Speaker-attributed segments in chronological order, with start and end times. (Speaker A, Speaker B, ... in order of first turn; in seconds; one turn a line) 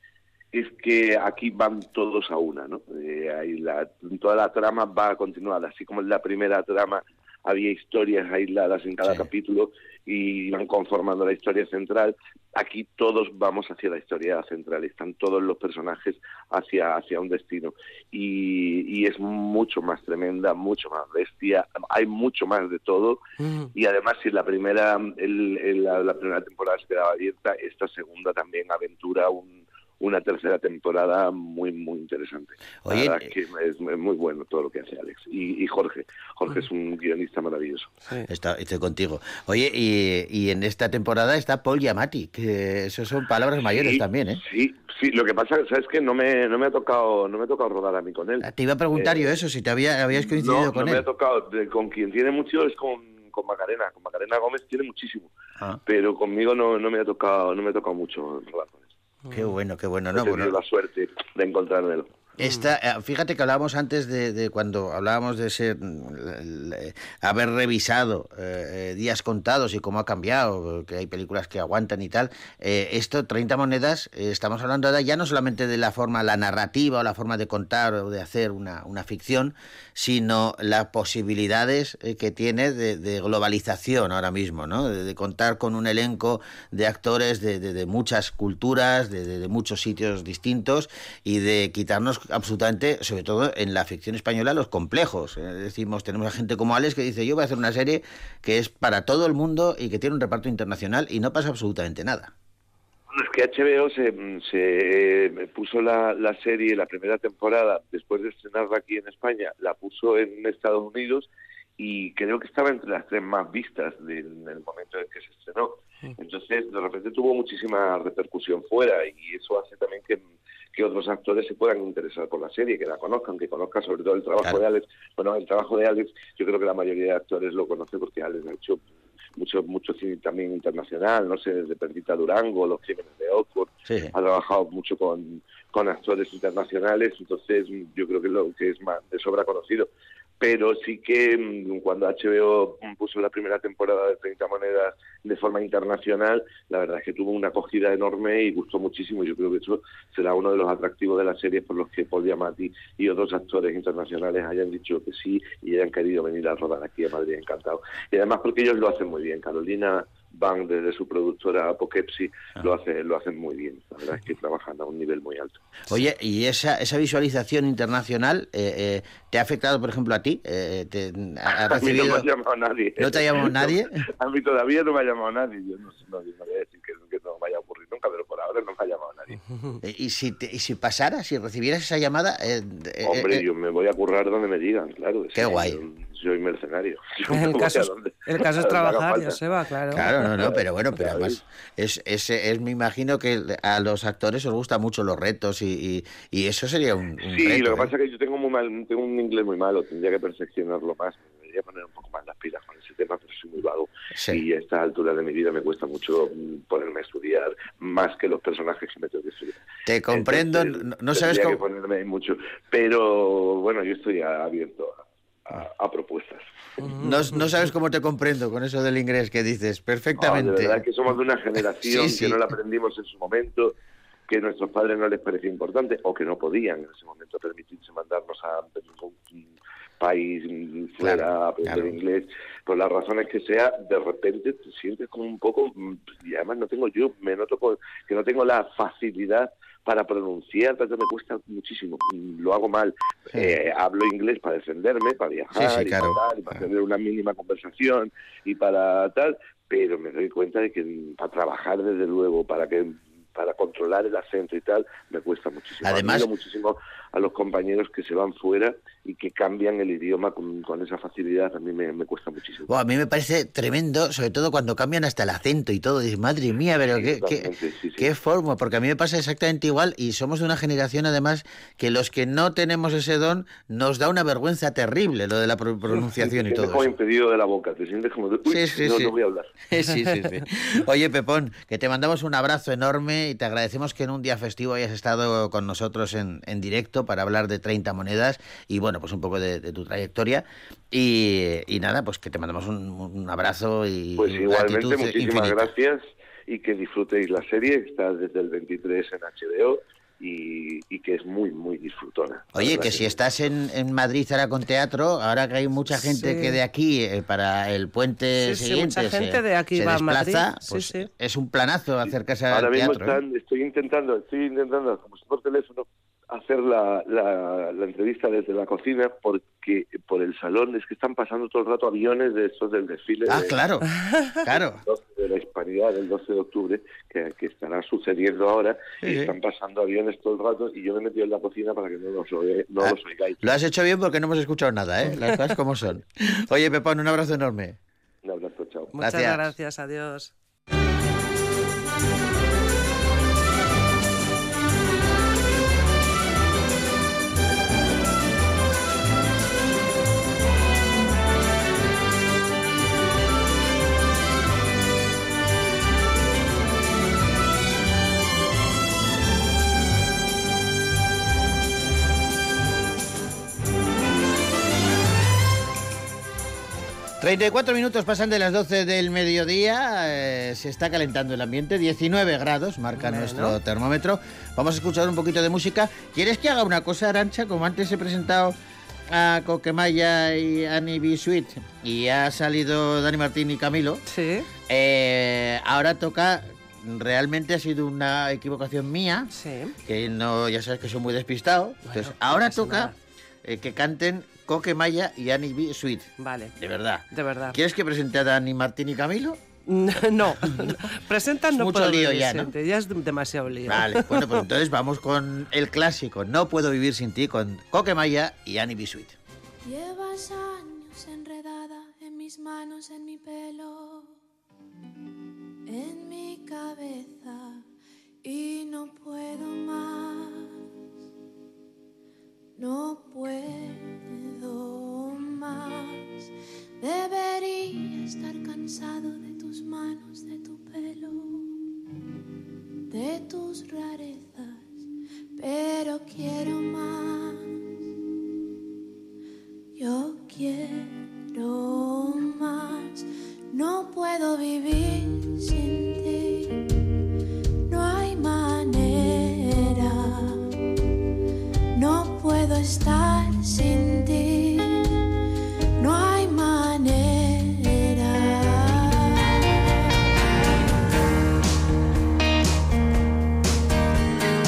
Speaker A: 0.5-23.2
Speaker B: 23.4-23.7
Speaker A: 23.8-37.9
Speaker C: 32.9-33.3
Speaker C: 38.3-44.4
Speaker A: 43.7-49.3
Speaker C: 48.4-51.1
Speaker A: 50.1-55.3
Speaker A: 55.9-58.8
Speaker C: 59.3-60.6
Speaker A: 60.1-62.1
Speaker C: 62.4-102.3
Speaker B: 62.4-62.7
Speaker A: 103.1-111.3
Speaker A: 111.8-120.2
Speaker A: 120.7-128.8
Speaker A: 129.4-139.9
Speaker C: 133.9-134.1
Speaker A: 140.4-165.7
Speaker C: 165.9-172.3
Speaker A: 171.7-179.4
Speaker C: 173.0-173.9
Speaker C: 179.8-183.4
Speaker A: 183.1-189.4
Speaker C: 185.3-185.8
Speaker B: 187.3-190.1
Speaker C: 189.9-197.9
Speaker A: 190.4-191.4
Speaker A: 197.2-216.5
Speaker C: 204.2-204.4
Speaker C: 209.9-211.6
Speaker B: 216.8-217.4
Speaker C: 217.0-220.8
Speaker A: 220.2-223.7
Speaker C: 221.8-222.4
Speaker A: 224.3-229.4
Speaker A: 230.0-262.7
Speaker C: 231.0-232.0
Speaker C: 245.6-246.6
Speaker C: 255.8-256.3
Speaker C: 262.7-276.9
Speaker A: 266.9-268.1
Speaker A: 276.0-279.6
Speaker C: 278.5-279.1
Speaker C: 279.7-295.7
Speaker A: 294.2-303.1
Speaker C: 302.6-313.2
Speaker B: 305.9-306.6
Speaker B: 308.4-311.1
Speaker A: 312.5-323.5
Speaker C: 323.3-323.9
Speaker B: 324.0-324.4
Speaker C: 324.4-324.8
Speaker A: 324.9-333.4
Speaker C: 329.0-329.3
Speaker C: 332.8-337.8
Speaker A: 338.2-338.9
Speaker B: 339.0-340.3
Speaker C: 339.0-339.5
Speaker C: 367.2-378.6
Speaker B: 373.0-373.6
Speaker C: 379.1-384.0
Speaker B: 384.1-384.5
Speaker C: 384.7-389.3
Speaker B: 389.3-389.8
Speaker C: 389.9-392.9
Speaker B: 391.9-392.9
Speaker C: 393.4-399.4
Speaker B: 396.2-396.5
Speaker B: 397.1-397.6
Speaker B: 399.7-404.4
Speaker C: 400.4-400.8
Speaker C: 401.5-402.5
Speaker C: 403.7-409.2
Speaker D: 409.6-414.1
Speaker D: 415.7-417.6
Speaker D: 418.2-420.5
Speaker D: 422.6-431.6
Speaker D: 432.9-434.7
Speaker D: 435.4-437.5
Speaker D: 439.8-446.6
Speaker D: 447.7-450.4
Speaker D: 451.8-455.0
Speaker D: 455.8-459.6